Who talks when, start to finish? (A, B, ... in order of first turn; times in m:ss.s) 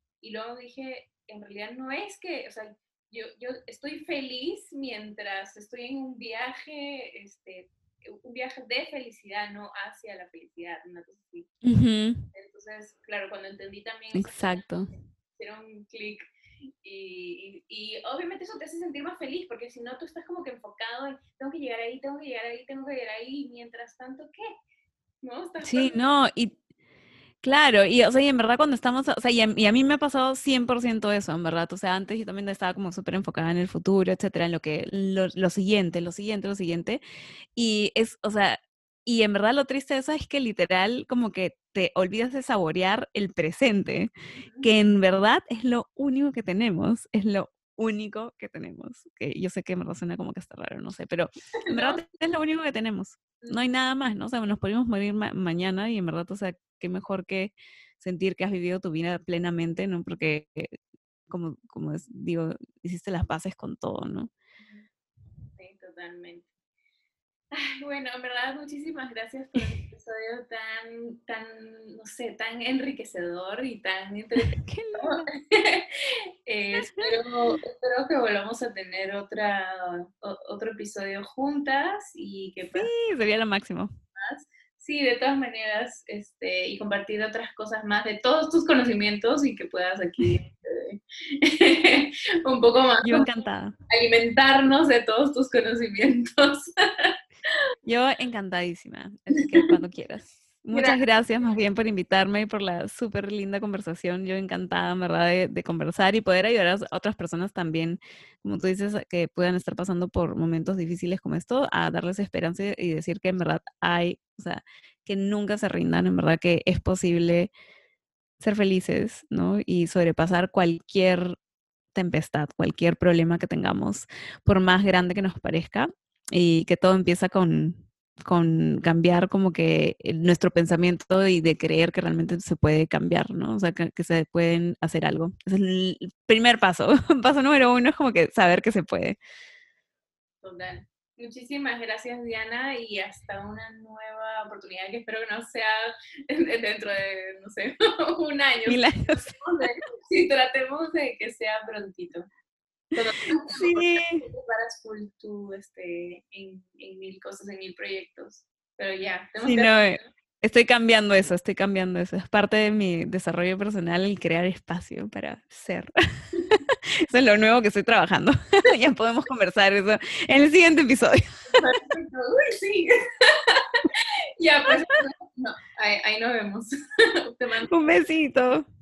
0:00.2-0:11.6 A
0:11.6-0:12.2 B
0:12.2-0:16.2 A
0:14.1-0:15.0 B
0:16.8-0:24.4 A
0:25.2-0:26.0 A
0:25.6-0:26.5 B
0:27.4-0:37.0 B
0:37.6-0:44.1 B
0:44.4-0:44.7 A
0:44.6-1:00.7 B
0:51.6-0:52.0 A
1:01.3-1:04.3 B
1:04.6-1:04.9 A
1:05.6-1:06.5 A
1:07.5-1:22.9 A
1:14.4-1:15.3 B
1:16.7-1:17.2 B
1:22.7-1:23.9 B
1:24.2-1:33.3 A
1:33.0-1:33.7 B
1:33.9-1:37.1 A
1:37.8-1:57.5 B
1:40.7-1:41.0 A
1:58.4-2:01.4 B
2:01.9-2:19.2 B
2:20.4-2:32.3 A
2:28.6-2:29.4 B
2:32.9-2:40.1 A
2:33.5-2:34.2 B
2:39.4-2:45.9 B
2:46.5-2:51.6 B
2:51.5-2:56.7 A
2:57.2-2:57.7 A
2:57.7-2:58.6 B